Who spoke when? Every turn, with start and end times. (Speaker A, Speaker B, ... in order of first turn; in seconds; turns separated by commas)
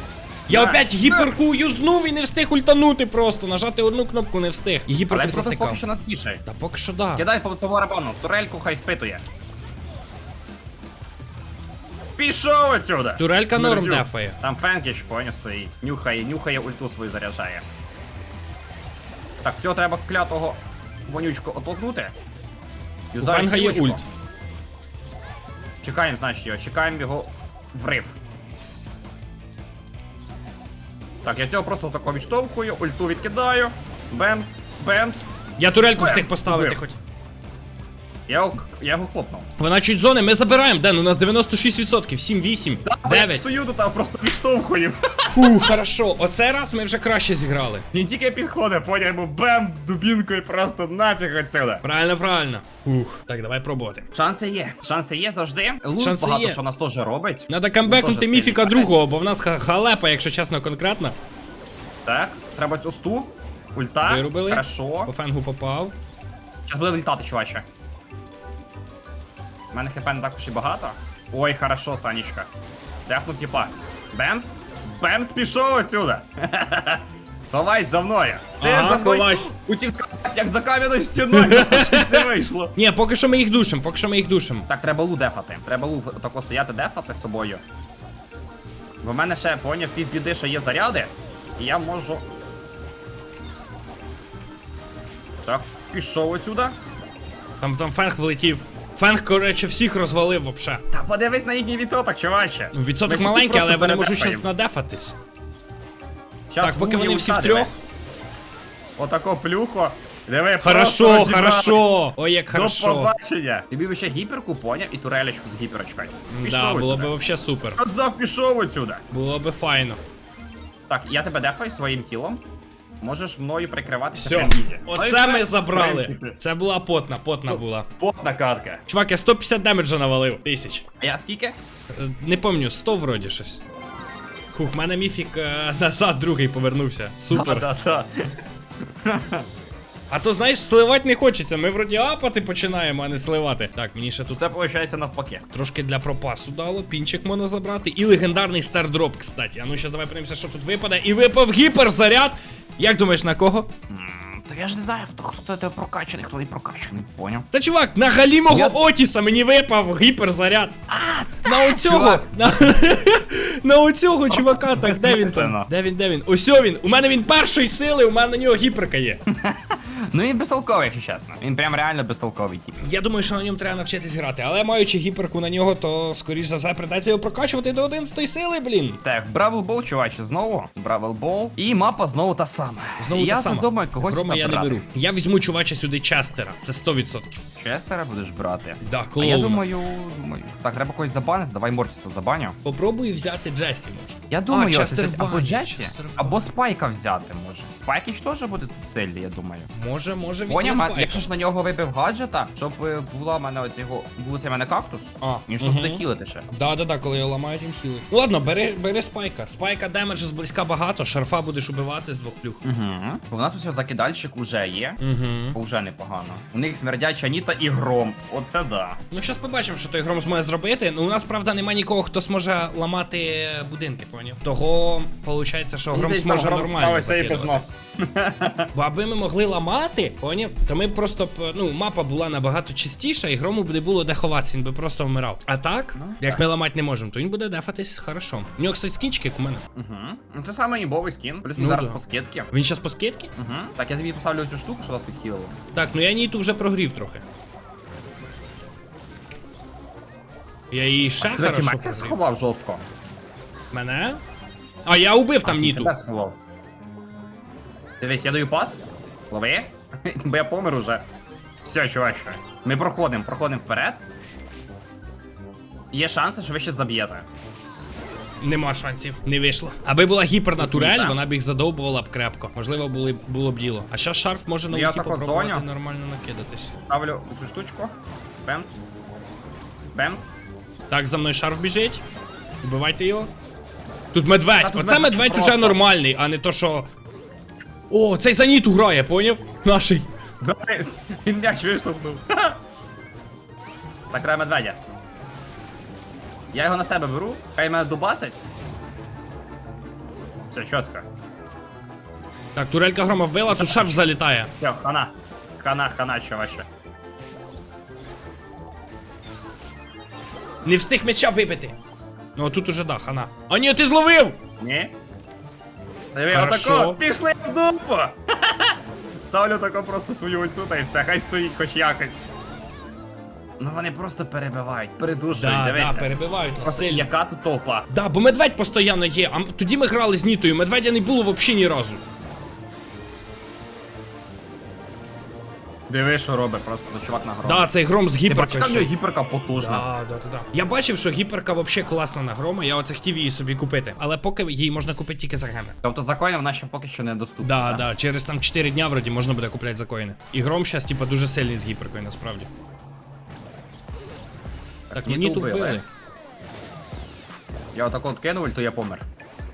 Speaker A: 0.5-5.8, Speaker B: 0.5-1.3, Speaker B: 5.1-6.4, Speaker A: 6.4-7.2, Speaker B: 7.1-9.2, Speaker B: 12.2-17.6, Speaker A: 13.2-14.4, Speaker B: 19.4-22.1, Speaker B: 23.1-24.0, Speaker A: 23.2-24.0, Speaker B: 25.8-28.1, Speaker B: 31.2-35.3, Speaker A: 35.6-37.0, Speaker B: 35.9-36.8, Speaker B: 38.3-39.4, Speaker A: 39.6-43.4, Speaker B: 42.8-45.6, Speaker A: 45.3-47.8, Speaker B: 47.9-51.8, Speaker A: 51.8-54.0, Speaker B: 54.1-59.0, Speaker A: 56.0-56.6, Speaker A: 57.5-61.1, Speaker B: 62.0-65.1, Speaker A: 64.0-65.9, Speaker B: 66.7-67.6, Speaker B: 69.7-72.5, Speaker B: 73.0-82.7, Speaker A: 78.6-79.5, Speaker A: 81.3-84.7, Speaker B: 84.7-87.6, Speaker B: 89.0-92.2, Speaker B: 95.4-96.7, Speaker A: 97.6-100.8, Speaker B: 100.9-104.5, Speaker A: 102.7-105.2, Speaker B: 106.5-107.7, Speaker A: 106.6-107.8, Speaker B: 109.0-111.9, Speaker A: 110.6-113.1, Speaker B: 112.5-117.1, Speaker A: 116.3-117.8, Speaker B: 117.8-119.0, Speaker A: 119.1-120.0, Speaker B: 120.9-122.4, Speaker B: 123.0-126.4, Speaker A: 124.2-127.9, Speaker B: 127.5-128.8, Speaker A: 128.9-130.8, Speaker B: 131.0-131.5, Speaker A: 131.9-133.6, Speaker A: 134.5-137.7, Speaker B: 137.3-138.3, Speaker B: 139.0-139.4, Speaker A: 140.1-144.4, Speaker B: 144.3-145.4, Speaker A: 145.5-153.7, Speaker B: 153.9-157.5, Speaker A: 157.5-160.8, Speaker B: 158.5-158.8, Speaker B: 160.9-162.6, Speaker A: 161.4-169.2, Speaker B: 164.3-165.7, Speaker B: 169.3-172.7, Speaker A: 172.8-179.0, Speaker B: 179.0-184.8, Speaker A: 183.0-187.4, Speaker B: 187.6-192.6, Speaker A: 188.8-189.7, Speaker A: 192.6-196.5, Speaker B: 194.3-199.7, Speaker A: 199.7-201.2, Speaker B: 200.5-206.5, Speaker A: 205.2-212.6, Speaker B: 212.6-215.0, Speaker A: 215.0-215.6, Speaker B: 215.5-219.0, Speaker A: 219.1-227.6, Speaker B: 225.9-228.7, Speaker A: 228.7-239.6, Speaker B: 235.9-236.4, Speaker B: 239.7-242.5, Speaker A: 241.6-242.0, Speaker A: 242.5-243.3, Speaker B: 243.4-245.5, Speaker A: 245.7-247.2, Speaker A: 250.7-252.2, Speaker B: 251.2-252.8, Speaker A: 253.7-254.2, Speaker A: 254.8-255.9, Speaker B: 255.4-256.4, Speaker B: 258.0-261.0, Speaker B: 261.6-264.0, Speaker B: 265.9-267.2, Speaker A: 268.4-276.7, Speaker B: 270.6-271.2, Speaker B: 274.7-275.7, Speaker B: 276.8-277.9, Speaker B: 278.4-278.8, Speaker B: 279.9-280.4, Speaker A: 280.9-282.0, Speaker A: 282.6-283.3, Speaker A: 284.1-286.9, Speaker B: 284.6-285.8, Speaker A: 287.9-290.1, Speaker B: 290.4-292.6, Speaker B: 294.1-294.8, Speaker B: 296.5-298.4, Speaker B: 300.5-301.0, Speaker A: 302.5-304.5, Speaker B: 303.5-306.6, Speaker A: 310.6-311.7, Speaker A: 312.4-314.4, Speaker B: 314.6-314.9, Speaker B: 316.1-322.2, Speaker A: 316.3-317.0, Speaker B: 323.6-327.9, Speaker A: 325.4-327.1, Speaker A: 327.9-332.0, Speaker B: 335.9-337.7, Speaker A: 337.4-338.9, Speaker B: 338.2-339.9, Speaker A: 339.5-345.8, Speaker B: 345.8-347.9, Speaker A: 347.4-352.5, Speaker B: 354.9-355.8, Speaker A: 354.9-355.8, Speaker B: 357.7-359.0